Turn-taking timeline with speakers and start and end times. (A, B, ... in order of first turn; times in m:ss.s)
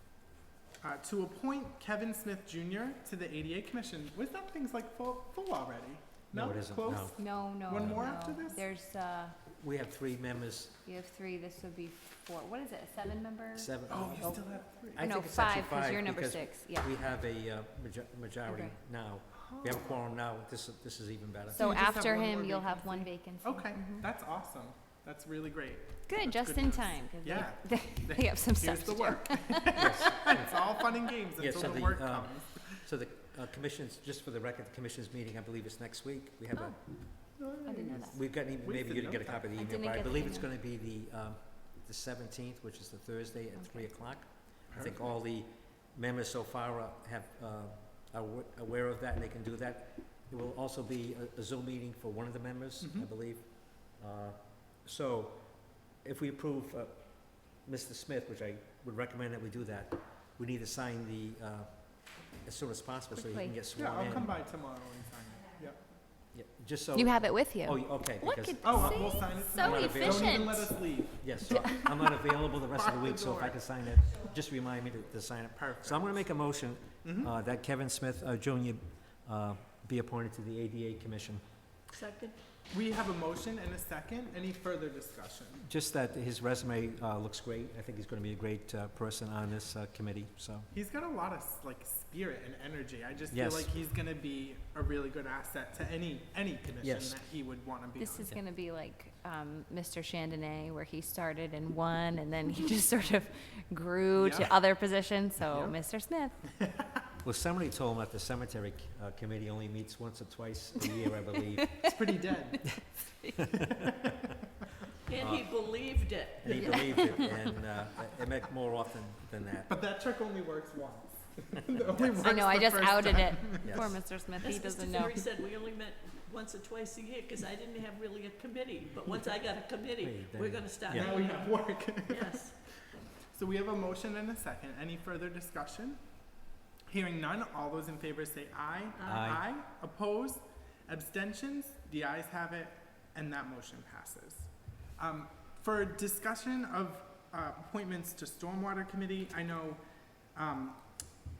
0:00.8-0:08.6 A
0:06.3-0:08.0 B
0:07.2-0:09.4 C
0:09.5-0:10.8 B
0:10.8-0:14.3 C
0:13.6-0:21.8 B
0:13.9-0:15.0 A
0:15.0-0:17.0 C
0:18.5-0:18.8 C
0:19.3-0:20.0 A
0:21.5-0:24.1 C
0:21.5-0:32.9 A
0:26.1-0:30.5 C
0:29.8-0:30.7 B
0:31.4-0:37.0 B
0:36.5-0:37.0 C
0:37.4-0:39.5 A
0:37.6-0:38.2 C
0:38.0-1:04.3 B
0:39.6-0:40.5 C
0:43.6-0:44.2 C
0:44.7-0:45.0 A
0:52.8-0:53.1 A
1:03.1-1:03.6 C
1:03.8-1:05.9 A
1:06.3-1:21.4 B
1:06.9-1:10.7 C
1:08.6-1:14.2 A
1:11.4-1:11.8 C
1:15.6-1:16.2 A
1:17.0-1:17.3 A
1:21.9-1:22.4 D
1:22.7-1:25.6 A
1:25.6-1:30.7 B
1:30.7-1:38.3 A
1:33.3-1:33.7 B
1:36.8-1:37.2 B
1:38.0-1:46.4 C
1:44.2-1:44.6 A
1:45.4-1:45.8 A
1:46.6-1:46.9 A
1:47.2-1:51.8 B
1:51.8-1:52.8 A
1:55.1-1:57.0 D
1:55.2-1:59.7 B
1:56.5-1:57.4 C
1:59.7-2:03.8 A
2:01.9-2:02.2 B
2:02.2-2:05.3 C
2:03.6-2:04.1 B
2:04.4-2:12.6 D
2:10.0-2:11.1 B
2:10.9-2:16.0 A
2:16.9-2:29.8 A
2:19.0-2:19.4 D
2:19.0-2:19.4 B
2:30.4-2:30.8 A